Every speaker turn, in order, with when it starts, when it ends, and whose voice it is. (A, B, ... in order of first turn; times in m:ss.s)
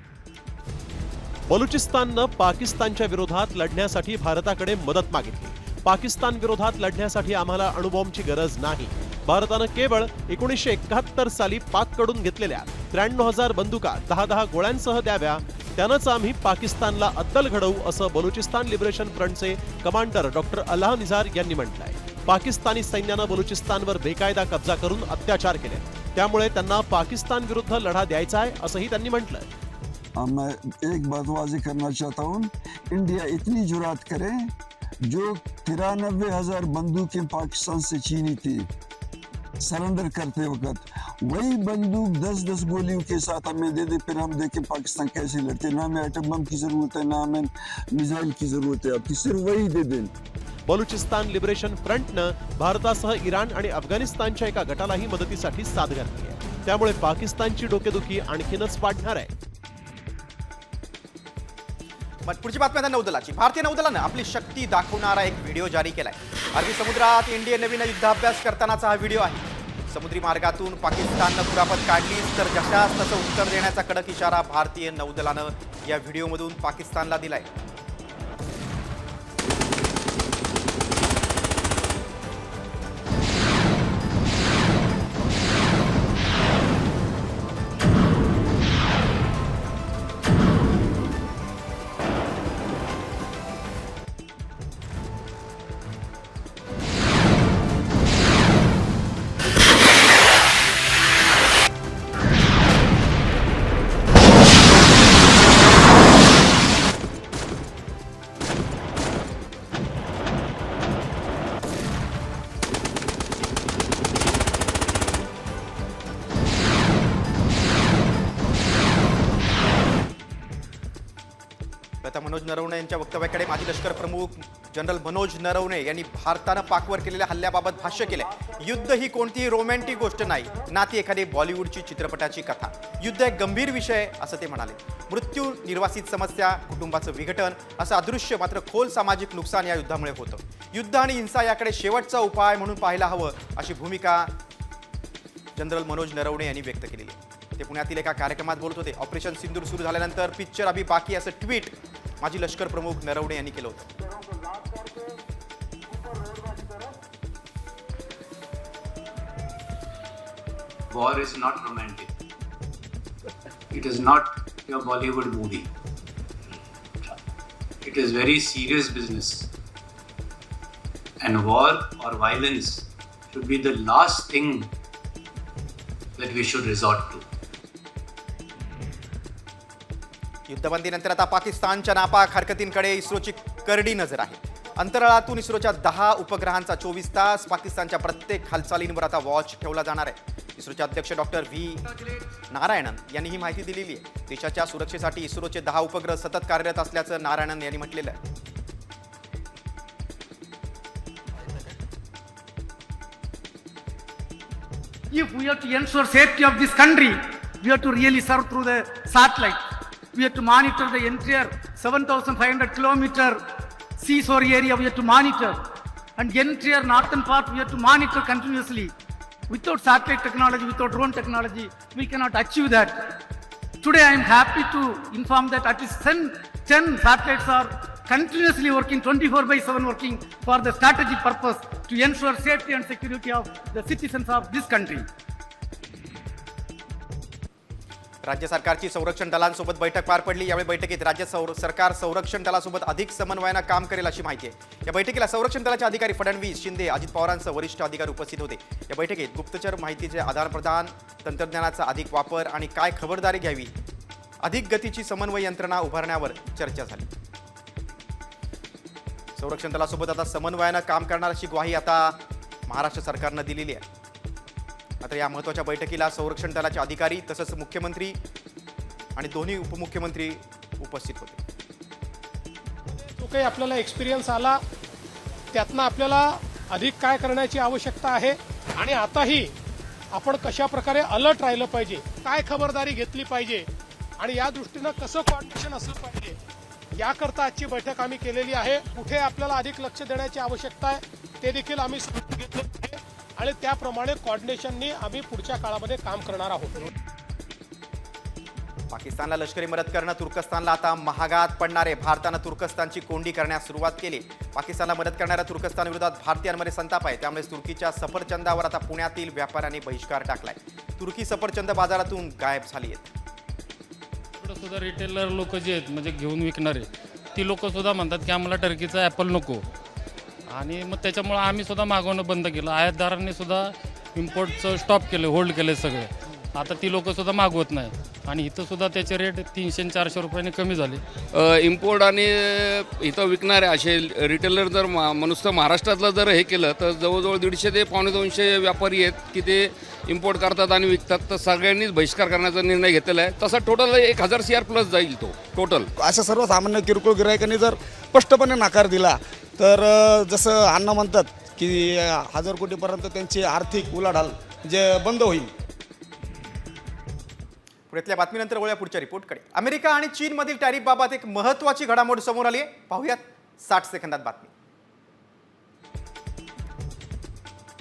0:01.5-0:29.5 A
0:30.2-0:34.5 B
0:35.1-0:38.7 B
0:39.6-0:50.1 B
0:50.7-0:59.3 A
1:02.3-1:17.5 C
2:02.0-2:24.3 C
2:25.6-2:33.9 C
2:40.9-2:42.1 D
2:43.7-2:45.7 D
2:47.8-2:49.5 D
2:51.2-2:54.7 D
2:56.2-2:57.2 D
3:00.5-3:18.2 C
3:25.1-3:33.4 E
3:34.0-3:35.6 E
3:36.2-3:38.9 E
3:39.5-3:43.2 E
3:43.8-3:55.1 E
3:58.2-4:13.7 C
4:14.4-4:17.1 C
4:19.4-4:23.8 C
4:25.0-4:28.2 C
4:29.2-4:31.4 C
4:32.9-4:34.6 F
4:35.5-4:39.5 F
4:40.1-4:43.7 F
4:44.2-4:46.4 F
4:47.0-4:56.9 F
4:58.9-5:13.1 C
5:14.4-5:19.7 G
5:20.5-5:31.0 G
5:31.3-5:45.9 H
5:46.0-5:55.5 I
5:57.9-6:04.5 C